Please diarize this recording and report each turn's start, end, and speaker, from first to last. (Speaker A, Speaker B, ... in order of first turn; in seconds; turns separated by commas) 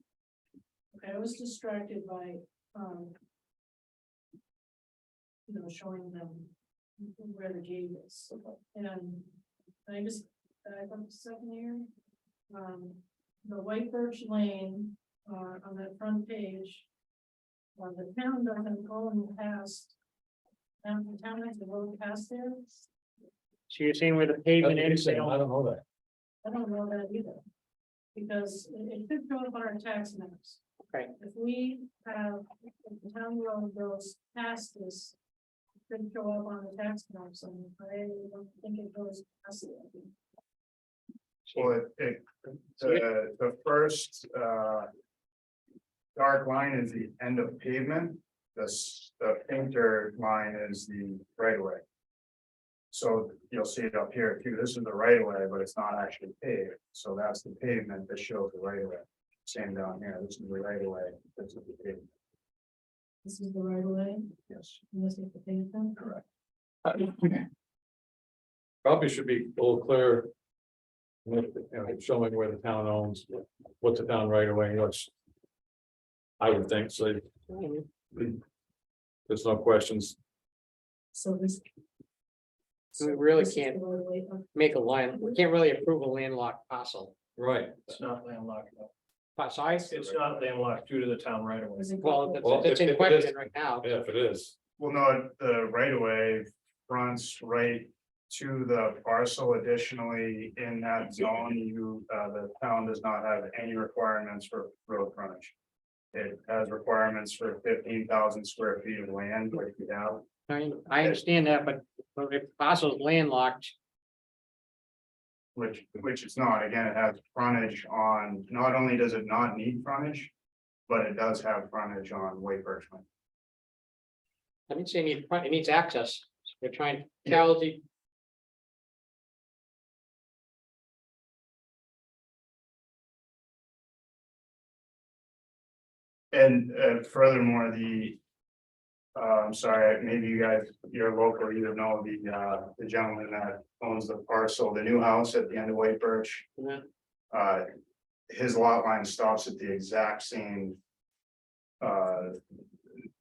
Speaker A: 0.9-3.1, Speaker A: 5.5-9.3, Speaker A: 9.9-11.9, Speaker A: 12.5-16.9, Speaker A: 17.8-19.9, Speaker A: 20.8-22.8, Speaker B: 23.7-25.4, Speaker C: 24.6-25.8, Speaker A: 26.4-27.4, Speaker A: 28.1-30.6, Speaker A: 31.2-35.1, Speaker A: 35.9-40.1, Speaker D: 41.5-44.9, Speaker D: 46.1-51.8, Speaker D: 52.9-62.1, Speaker A: 63.2-64.3, Speaker D: 64.5-64.8, Speaker A: 64.9-66.0, Speaker C: 68.8-70.3, Speaker C: 71.2-75.1, Speaker C: 76.4-77.2, Speaker B: 77.5-77.9, Speaker C: 78.1-78.4, Speaker C: 79.3-80.2, Speaker A: 81.1-81.6, Speaker A: 83.0-84.5, Speaker B: 83.0-83.8, Speaker B: 84.5-87.1, Speaker C: 87.3-87.9, Speaker E: 87.9-88.9, Speaker B: 89.3-90.0, Speaker E: 89.8-91.9, Speaker A: 91.8-92.5, Speaker B: 92.0-93.9, Speaker C: 92.4-94.5, Speaker D: 94.8-105.5, Speaker D: 106.1-110.2, Speaker B: 110.5-113.7, Speaker D: 115.5-120.3, Speaker D: 120.9-123.0, Speaker B: 124.7-127.8, Speaker D: 136.3-138.2, Speaker D: 139.1-146.5, Speaker B: 146.6-146.8, Speaker D: 147.3-147.7, Speaker D: 148.3-150.8, Speaker D: 151.8-152.4